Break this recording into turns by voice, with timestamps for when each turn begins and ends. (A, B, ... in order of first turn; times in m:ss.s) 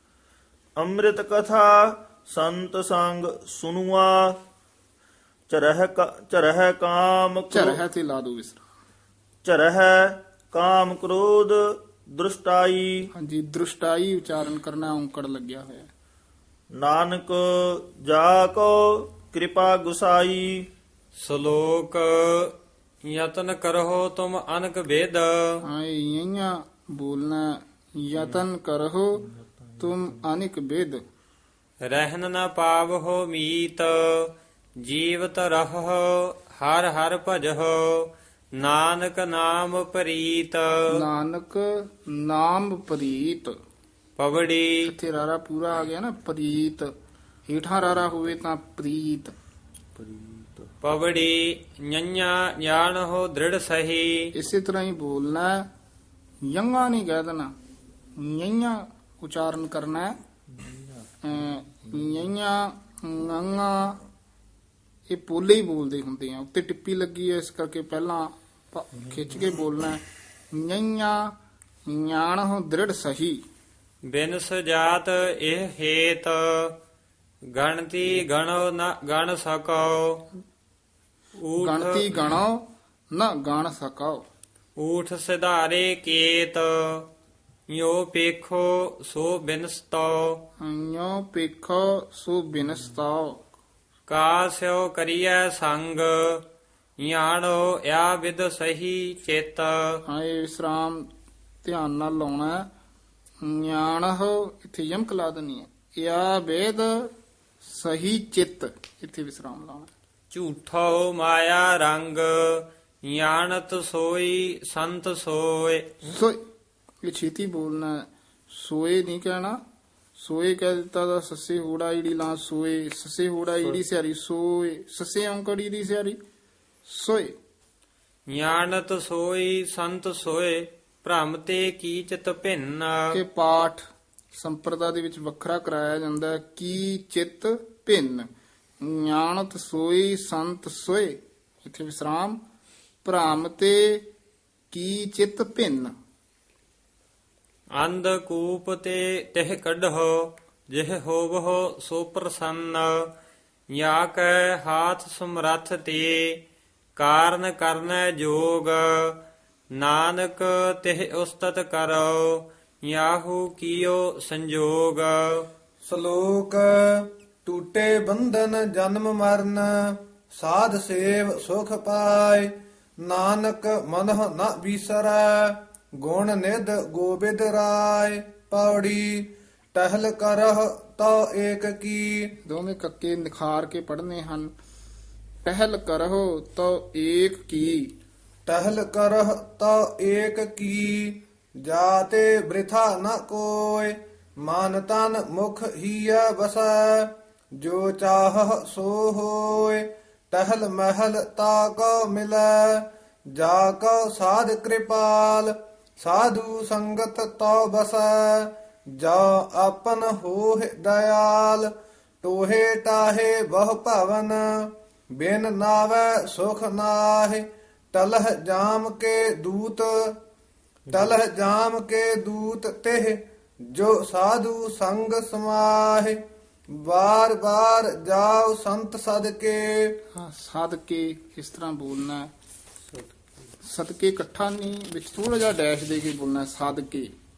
0:00.8-0:04.3 A
0:05.5-0:07.8 A
0:07.5-0:08.6 B
0:09.4-0:12.9 A
0:13.2-0:15.9 B
0:16.8-0:20.6 A
0:21.2-0:22.5 C
0:23.1-0:25.5 C
0:25.6-0:29.3 B
0:29.8-0:31.0 B
0:31.8-0:34.3 C
0:34.8-0:40.8 C
0:40.9-0:43.6 B
0:44.2-0:44.8 C
0:44.8-0:46.9 B
0:47.5-0:49.3 B
0:50.8-0:54.2 C
0:54.4-0:55.7 B
0:56.5-0:57.5 B
0:58.2-1:00.2 B
1:01.2-1:04.0 B
1:05.1-1:10.0 B
1:10.5-1:11.3 B
1:11.9-1:13.4 B
1:14.1-1:16.7 C
1:17.5-1:20.2 C
1:21.4-1:22.2 C
1:21.6-1:24.2 B
1:24.8-1:27.1 C
1:27.7-1:30.4 C
1:30.6-1:33.4 B
1:34.1-1:36.4 C
1:37.0-1:39.8 C
1:40.1-1:41.1 B
1:41.6-1:42.7 B
1:43.4-1:47.1 B
1:47.6-1:49.9 B
1:50.3-1:55.9 C
1:56.1-1:56.4 B
1:57.0-1:59.6 B
2:00.2-2:06.2 B
2:06.9-2:07.4 B
2:08.3-2:13.0 C
2:13.1-2:13.8 B
2:14.3-2:18.3 B
2:18.8-2:22.4 B
2:23.0-2:24.1 B
2:24.7-2:25.9 B
2:27.8-2:33.1 C
2:33.7-2:36.4 C
2:37.0-2:39.2 C
2:39.8-2:45.5 C
2:45.9-2:52.5 D
2:53.0-3:02.3 D
3:02.4-3:04.5 B
3:05.4-3:07.9 B
3:08.5-3:31.7 D
3:32.2-3:40.2 D
3:40.9-3:46.2 D
3:46.8-3:50.0 D
3:50.2-3:52.3 B
3:53.6-3:57.1 B